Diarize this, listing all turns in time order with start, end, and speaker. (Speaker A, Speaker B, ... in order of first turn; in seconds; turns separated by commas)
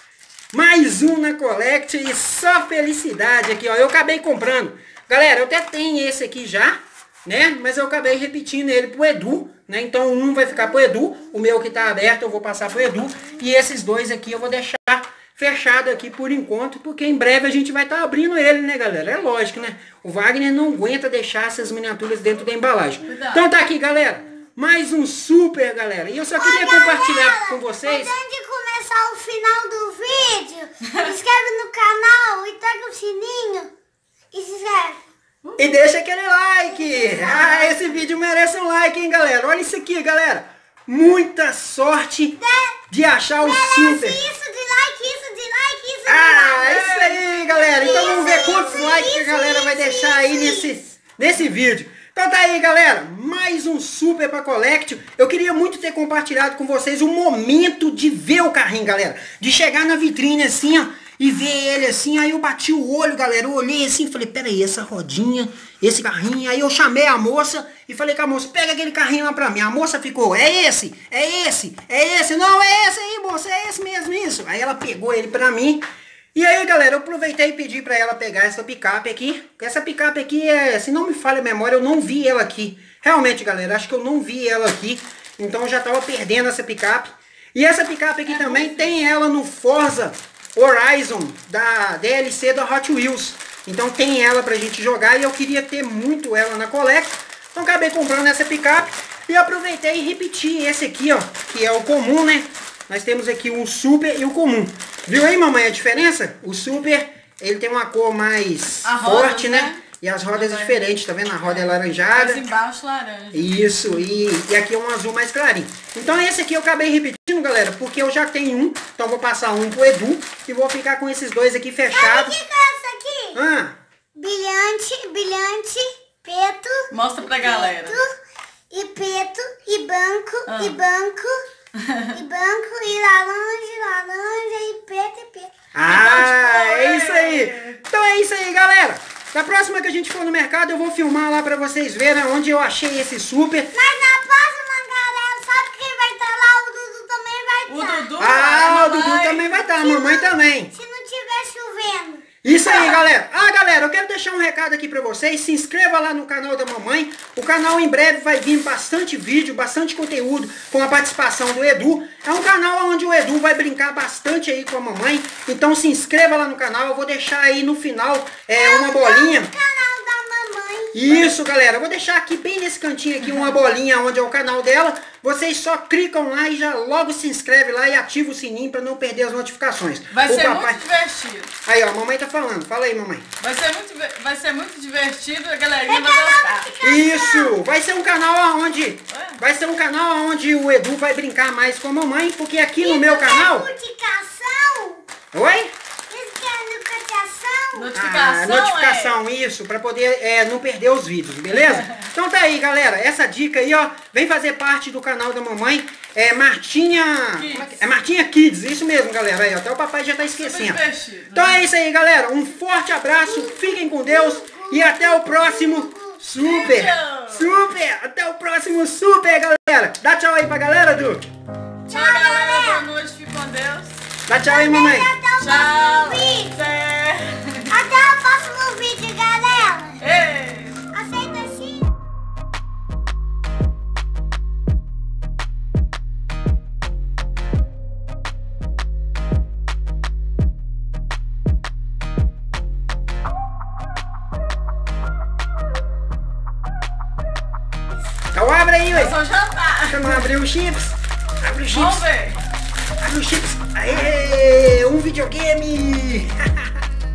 Speaker A: 0.5-28.1, Speaker B: 23.1-23.5, Speaker C: 26.4-33.7, Speaker C: 34.3-35.0, Speaker A: 35.6-42.4, Speaker B: 37.0-38.0, Speaker C: 42.4-42.8, Speaker A: 42.9-44.2, Speaker C: 43.4-46.9, Speaker A: 46.1-75.8, Speaker B: 46.6-48.9, Speaker C: 47.8-50.8, Speaker A: 76.3-112.5, Speaker B: 88.3-88.9, Speaker B: 108.8-109.8, Speaker B: 110.3-110.9, Speaker B: 111.4-113.6, Speaker A: 113.3-122.4, Speaker C: 121.9-123.4, Speaker A: 123.3-123.8, Speaker C: 124.2-128.1, Speaker B: 126.9-128.0, Speaker C: 128.7-131.4, Speaker B: 130.5-130.8, Speaker B: 131.8-132.1, Speaker C: 132.1-135.5, Speaker A: 135.7-143.7, Speaker B: 135.9-137.8, Speaker C: 143.7-148.1, Speaker B: 147.7-149.7, Speaker A: 148.2-150.7, Speaker C: 149.8-153.0, Speaker A: 152.4-169.5, Speaker C: 168.5-171.2, Speaker A: 170.9-180.8, Speaker B: 180.1-181.5, Speaker A: 181.6-183.3, Speaker B: 183.4-186.7, Speaker C: 185.8-187.6, Speaker A: 186.8-193.7, Speaker B: 189.1-189.4, Speaker C: 192.8-195.0, Speaker A: 195.3-195.7, Speaker C: 196.1-197.9, Speaker B: 197.8-199.2, Speaker A: 197.9-221.3, Speaker B: 207.4-207.8, Speaker B: 210.4-211.6, Speaker C: 213.2-216.2, Speaker B: 216.4-217.6, Speaker C: 221.9-222.9, Speaker B: 221.9-224.0, Speaker A: 224.3-225.1, Speaker C: 224.4-226.6, Speaker B: 225.4-227.8, Speaker C: 227.7-230.0, Speaker B: 230.0-230.8, Speaker C: 230.9-231.9, Speaker A: 248.3-249.2, Speaker B: 248.9-250.3, Speaker A: 249.9-252.1, Speaker B: 251.7-252.4, Speaker A: 253.0-256.8